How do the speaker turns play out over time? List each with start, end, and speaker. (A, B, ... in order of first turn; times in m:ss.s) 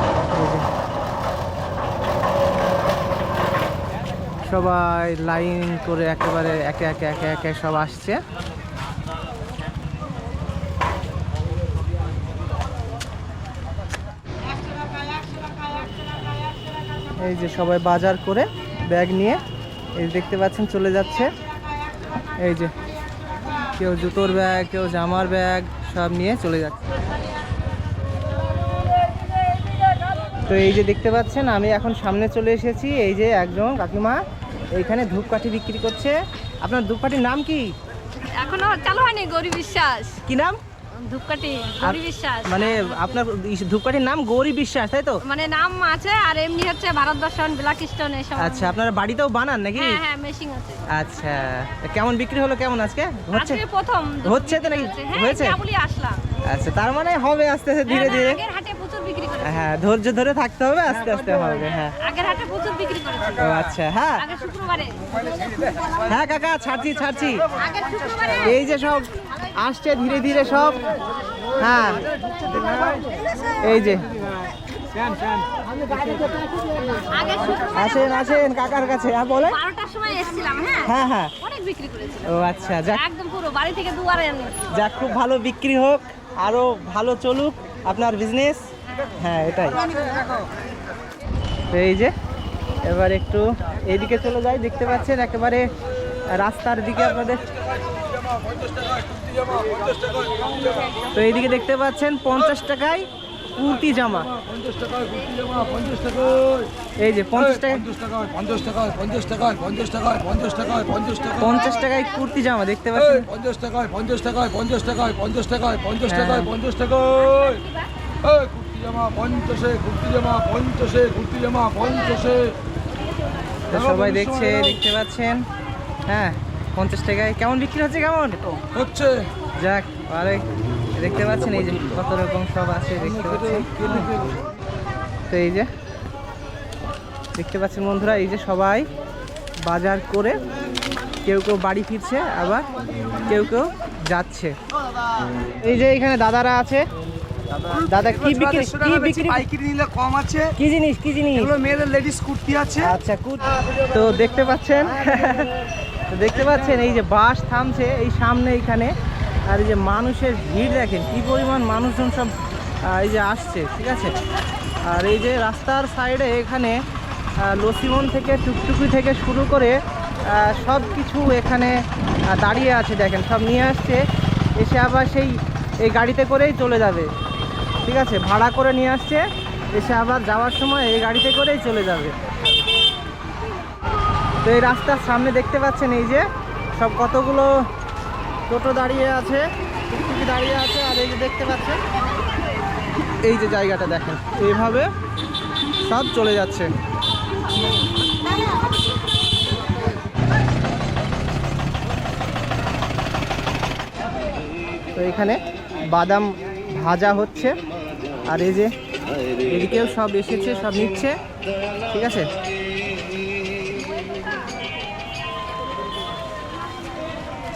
0:00.3-0:00.6 A
0:04.4-0:08.2 A
0:17.2-0:19.4 A
0:20.0-0:21.3 A
0:22.4-0:22.7 A
0:23.8-0:26.9 A
0:30.5-0:34.2 A
0:34.7-0:37.7 A
0:38.4-0:40.2 B
0:40.2-0:40.6 A
0:41.0-0:43.2 B
0:41.8-0:45.2 A
0:45.2-0:48.7 B
0:48.4-0:50.0 A
0:49.7-0:50.8 B
0:50.9-0:53.6 A
0:53.3-0:56.2 B
0:54.2-0:55.6 A
0:56.4-0:58.4 A
0:57.8-0:59.7 B
0:59.4-1:02.0 A
1:02.0-1:03.5 B
1:03.4-1:04.2 A
1:04.2-1:05.9 B
1:06.0-1:07.4 A
1:07.6-1:08.5 B
1:08.4-1:10.9 A
1:11.6-1:12.1 A
1:13.6-1:14.1 A
1:17.1-1:18.6 B
1:17.7-1:19.6 A
1:19.4-1:22.3 B
1:20.8-1:21.3 A
1:22.2-1:23.0 A
1:22.9-1:24.7 B
1:24.7-1:28.6 A
1:29.1-1:29.8 A
1:31.7-1:32.1 A
1:32.8-1:35.6 A
1:36.3-1:37.5 A
1:37.9-1:40.6 C
1:41.1-1:44.3 A
1:44.3-1:46.7 C
1:47.0-1:47.9 A
1:47.5-1:51.8 C
1:51.4-1:53.3 A
1:53.0-1:57.6 C
1:56.1-1:56.5 A
1:57.4-1:57.8 B
1:58.2-2:02.5 C
2:03.7-2:05.4 A
2:03.7-2:04.8 C
2:06.1-2:08.4 A
2:08.6-2:09.3 C
2:09.6-2:14.1 A
2:13.2-2:14.3 C
2:15.3-2:15.7 A
2:17.3-2:18.9 A
2:19.6-2:20.4 A
2:21.2-2:22.7 A
2:23.2-2:24.5 A
2:25.6-2:26.8 A
2:27.7-2:29.2 C
2:27.9-2:29.4 A
2:28.3-2:28.6 D
2:29.2-2:30.5 D
2:29.9-2:30.2 C
2:30.6-2:31.5 A
2:31.6-2:32.8 D
2:31.7-2:32.4 C
2:32.8-2:35.5 A
2:36.1-2:38.9 A
2:39.5-2:42.3 A
2:42.8-2:44.2 A
2:44.8-2:46.8 A
2:47.4-2:51.8 A
2:52.3-2:54.0 A
2:54.6-2:57.1 A
2:57.8-3:02.2 A
3:04.4-3:06.2 A
3:06.8-3:07.5 A
3:08.5-3:11.8 A
3:13.2-3:14.9 A
3:15.8-3:16.7 A
3:24.9-3:27.5 A
3:28.3-3:28.7 A
3:29.4-3:31.1 A
3:31.9-3:32.3 A